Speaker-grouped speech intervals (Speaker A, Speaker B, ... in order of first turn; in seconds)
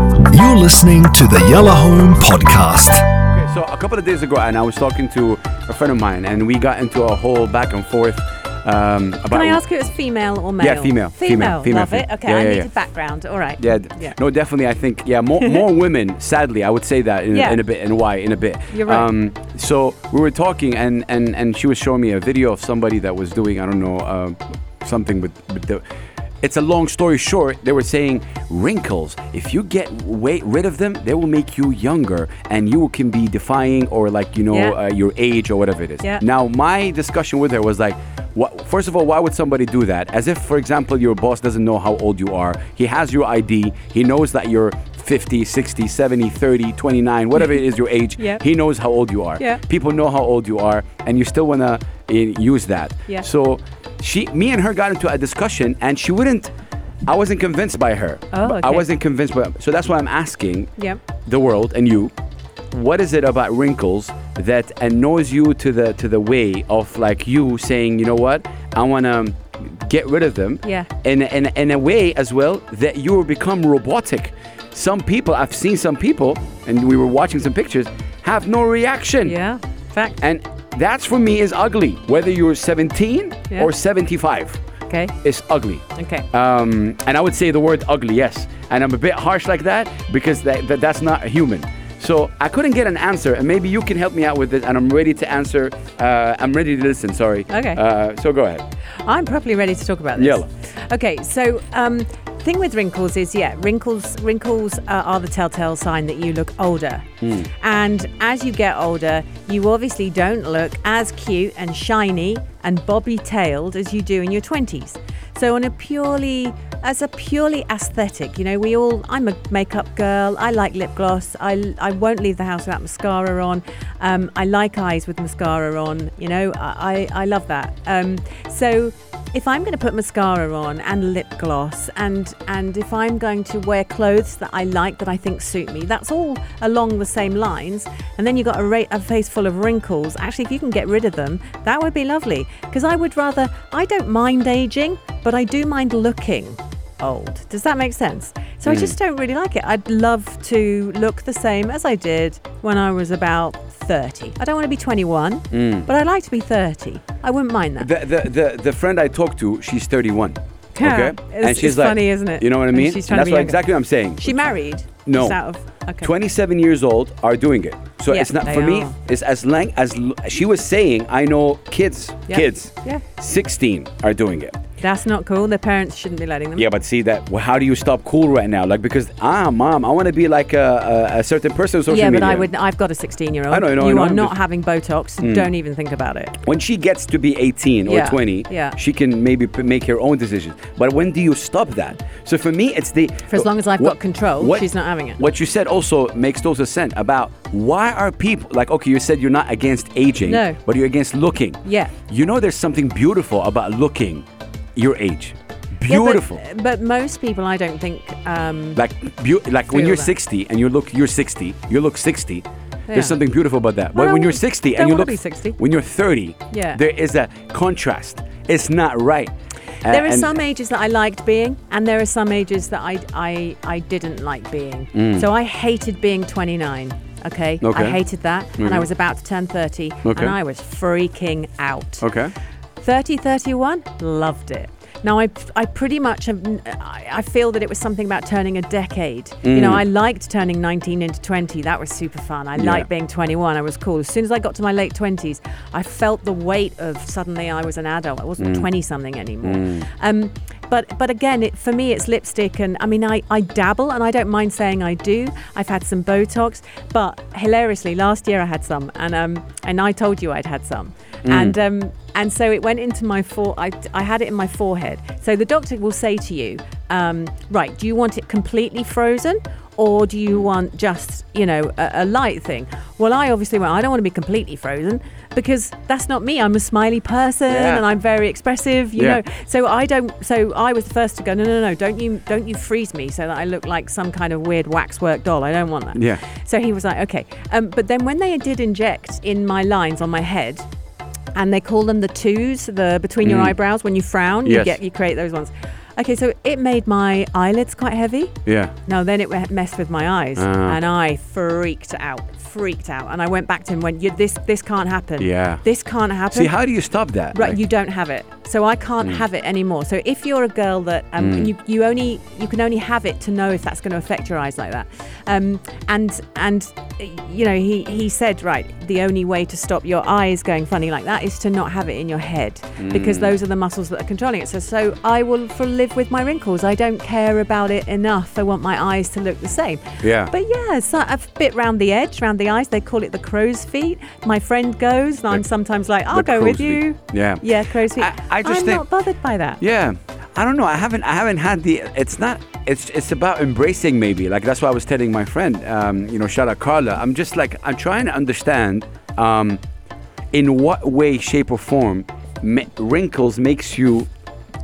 Speaker A: 0.3-3.0
Speaker B: 3.3-9.6, 10.6-12.7, 13.6-25.8, 26.4-56.5, 57.0-60.7, 61.3-62.1, 62.7-79.3, 80.2-84.6, 85.2-98.6, 100.2-100.5, 107.2-107.5, 148.7-148.9, 155.5-155.9, 157.8-164.4, 165.0-165.4, 166.0-174.6, 176.6-182.5, 183.5-184.3, 185.2-185.5, 186.4-206.4, 208.8-219.3, 219.8-220.3, 224.9-225.2, 227.6-228.0, 228.6-228.9, 230.1-230.3, 232.0-232.3, 239.4-239.8, 242.6-242.9, 248.4-248.7, 249.4-249.9, 261.2-261.6, 277.5-277.8, 285.9-286.2, 293.2-293.6, 294.4-294.8, 298.4-298.7, 300.4-300.8, 305.2-305.6, 306.3-307.6, 311.2-311.5, 322.8-323.3, 330.0-330.3, 336.1-337.4, 337.9-338.8, 339.6-349.6, 350.3-354.1
Speaker C: 9.3-14.2, 17.3-17.6, 18.7-19.1, 34.5-34.8, 58.3-58.9, 60.8-61.0, 70.6-70.9, 79.2-80.2, 84.9-85.1, 86.0-86.2, 97.5-97.8, 99.0-157.9, 160.8-163.7, 164.2-166.1, 168.1-168.9, 172.3-173.1, 174.8-176.7, 181.9-186.4, 187.8-188.8, 193.3-195.2, 200.2-200.6, 201.6-201.9, 205.9-208.8, 209.7-210.1, 212.9-213.2, 213.9-215.6, 216.5-216.8, 219.8-232.1, 232.8-290.7, 291.4-306.6, 307.3-339.6